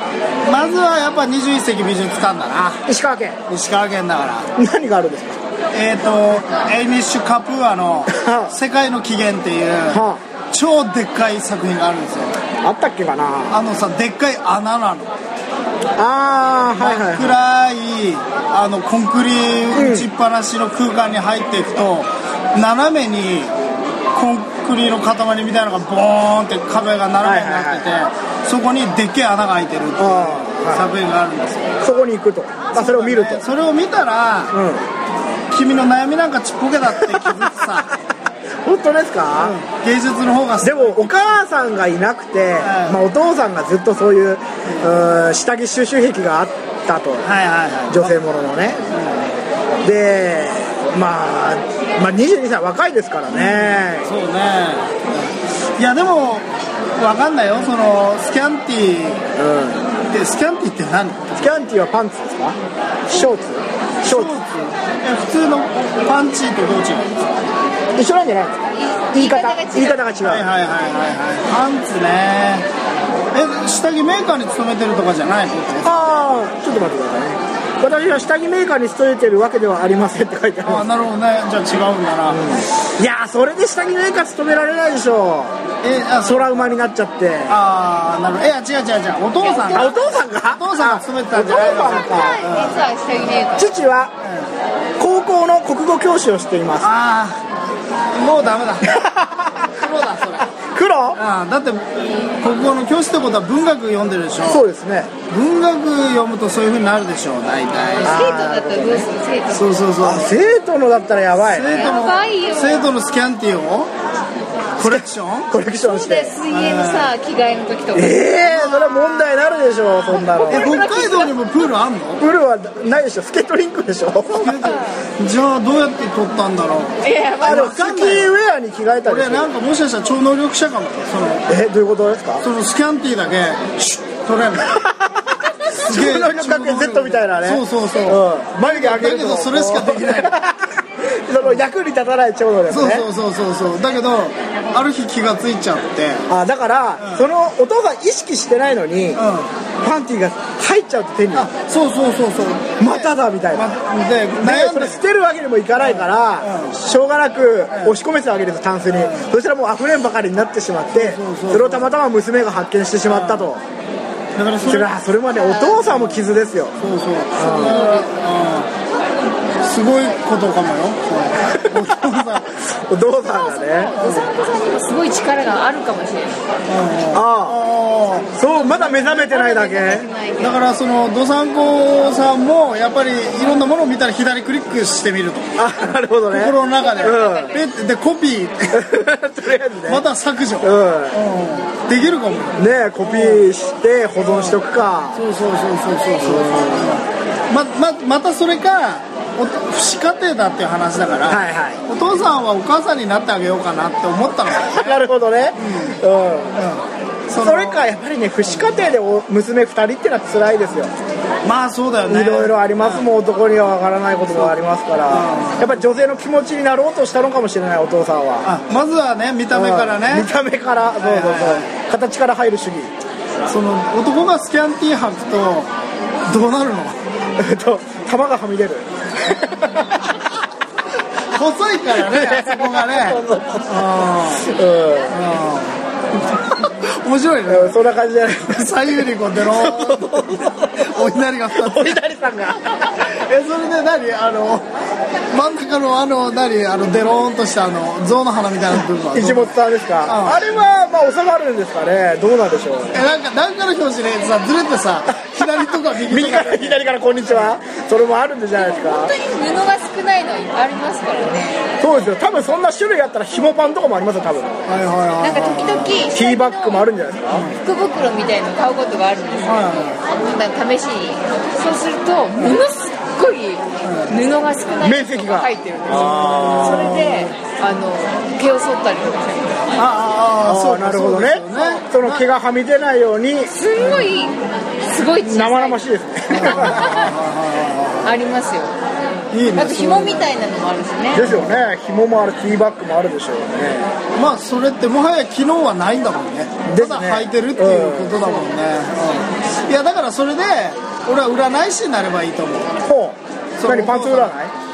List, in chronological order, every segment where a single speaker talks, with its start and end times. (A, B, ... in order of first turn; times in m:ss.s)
0:00.4-0:02.8 A
0:02.8-0:03.4 B
0:03.5-0:04.5 A
0:04.6-0:05.4 B
0:05.7-0:12.3 A
0:08.1-0:08.5 B
0:09.9-0:10.2 B
0:12.6-0:13.6 B
0:13.5-0:15.1 A
0:16.0-0:17.4 B
0:16.8-0:23.5 A
0:19.7-0:20.1 B
0:24.1-0:31.8 A
0:27.2-0:27.9 B
0:30.0-0:30.8 B
0:31.8-0:33.4 B
0:32.7-0:34.5 A
0:34.5-0:34.8 B
0:35.5-0:37.9 A
0:37.0-0:37.9 B
0:38.6-0:39.6 B
0:39.4-0:41.1 A
0:40.6-0:47.3 B
0:42.6-0:43.0 A
0:47.2-0:48.2 A
0:47.9-0:48.8 B
0:48.9-0:49.3 A
0:49.8-0:54.1 B
0:53.3-0:55.0 A
0:55.8-0:56.4 A
0:57.0-0:59.2 A
0:59.4-0:59.9 B
1:00.0-1:01.6 A
1:01.4-1:04.3 B
1:04.0-1:07.2 A
1:08.0-1:10.4 B
1:08.9-1:10.0 C
1:10.2-1:12.7 A
1:13.3-1:16.1 A
1:15.8-1:20.8 B
1:20.6-1:22.4 A
1:22.3-1:25.5 B
1:25.8-1:26.6 A
1:26.2-1:27.5 B
1:27.5-1:29.9 A
1:29.4-1:30.2 C
1:29.7-1:32.4 B
1:30.5-1:32.8 A
1:31.8-1:33.7 C
1:33.6-1:34.1 B
1:34.2-1:34.5 A
1:35.0-1:36.9 B
1:36.8-1:37.4 A
1:38.1-1:39.0 A
1:38.8-1:39.7 B
1:39.7-1:40.5 A
1:40.4-1:41.2 B
1:41.1-1:44.6 A
1:44.4-1:45.1 B
1:45.3-1:48.2 A
1:48.0-1:49.8 C
1:48.0-1:49.1 B
1:49.5-1:50.4 A
1:50.0-1:51.9 B
1:51.4-1:53.9 A
1:51.7-1:52.9 C
1:54.8-1:55.5 A
1:54.8-1:56.4 B
1:55.8-1:58.2 C
1:56.5-1:57.1 A
1:57.9-2:00.7 B
1:58.5-1:59.0 A
2:00.2-2:01.4 C
2:00.5-2:02.2 A
2:02.2-2:04.7 B
2:04.2-2:08.3 A
2:04.4-2:05.0 C
2:07.0-2:07.8 C
2:07.4-2:09.5 B
2:09.0-2:11.4 A
2:11.5-2:12.4 B
2:12.4-2:14.8 A
2:14.8-2:23.0 B
2:15.7-2:20.4 A
2:22.7-2:26.2 A
2:26.3-2:29.2 B
2:27.0-2:27.2 A
2:29.2-2:29.5 A
2:29.8-2:31.5 B
2:31.3-2:35.0 A
2:32.8-2:33.7 B
2:34.4-2:43.6 B
2:35.8-2:36.8 A
2:37.7-2:38.0 A
2:39.0-2:39.3 A
2:41.0-2:41.9 A
2:43.1-2:43.5 A
2:44.4-2:44.9 A
2:44.6-2:46.7 B
2:45.8-2:46.3 A
2:46.8-2:48.7 A
2:47.4-2:47.9 B
2:49.6-2:52.5 A
2:51.5-2:52.2 B
2:52.7-2:53.9 B
2:53.4-2:56.4 C
2:54.0-2:54.3 A
2:56.7-2:58.4 A
2:57.1-2:57.6 B
2:58.3-3:00.1 B
2:58.5-3:00.6 C
3:00.4-3:05.6 A
3:05.6-3:07.5 B
3:06.3-3:08.8 A
3:07.0-3:07.6 C
3:08.7-3:10.1 B
3:09.8-3:13.4 A
3:10.6-3:11.2 B
3:12.6-3:15.2 B
3:14.2-3:14.6 A
3:15.1-3:26.0 A
3:16.2-3:17.0 B
3:21.3-3:21.8 B
3:24.5-3:26.6 B
3:26.5-3:27.8 A
3:27.4-3:30.9 B
3:31.4-3:33.1 A
3:32.1-3:38.5 B
3:35.1-3:35.8 A
3:38.4-3:40.3 A
3:39.5-3:42.9 B
3:41.0-3:41.7 A
3:43.5-3:45.7 A
3:46.3-3:47.0 A
3:47.4-3:49.8 B
3:51.3-3:54.5 A
3:52.0-3:53.7 B
3:54.4-3:55.1 B
3:55.1-3:57.8 A
3:57.5-4:03.0 B
3:58.5-4:01.9 A
4:03.0-4:04.7 A
4:05.3-4:10.6 A
4:09.1-4:13.0 B
4:12.9-4:17.4 A
4:15.4-4:19.1 B
4:18.6-4:21.8 C
4:21.8-4:24.6 B
4:24.7-4:26.0 A
4:25.2-4:26.9 C
4:26.1-4:27.5 B
4:27.3-4:27.6 A
4:27.5-4:39.6 C
4:29.4-4:30.0 A
4:33.8-4:34.2 A
4:34.8-4:37.0 B
4:35.9-4:37.3 A
4:39.8-4:42.2 A
4:40.4-4:43.5 B
4:43.5-4:45.8 C
4:43.8-4:44.0 A
4:45.2-4:46.9 B
4:46.3-4:48.2 A
4:46.5-4:47.1 C
4:48.0-4:48.8 C
4:49.3-4:50.3 A
4:49.5-4:51.3 C
4:51.1-4:53.9 B
4:51.2-4:51.5 A
4:54.2-5:02.7 A
4:56.6-4:58.3 B
5:02.8-5:04.5 B
5:03.6-5:04.3 A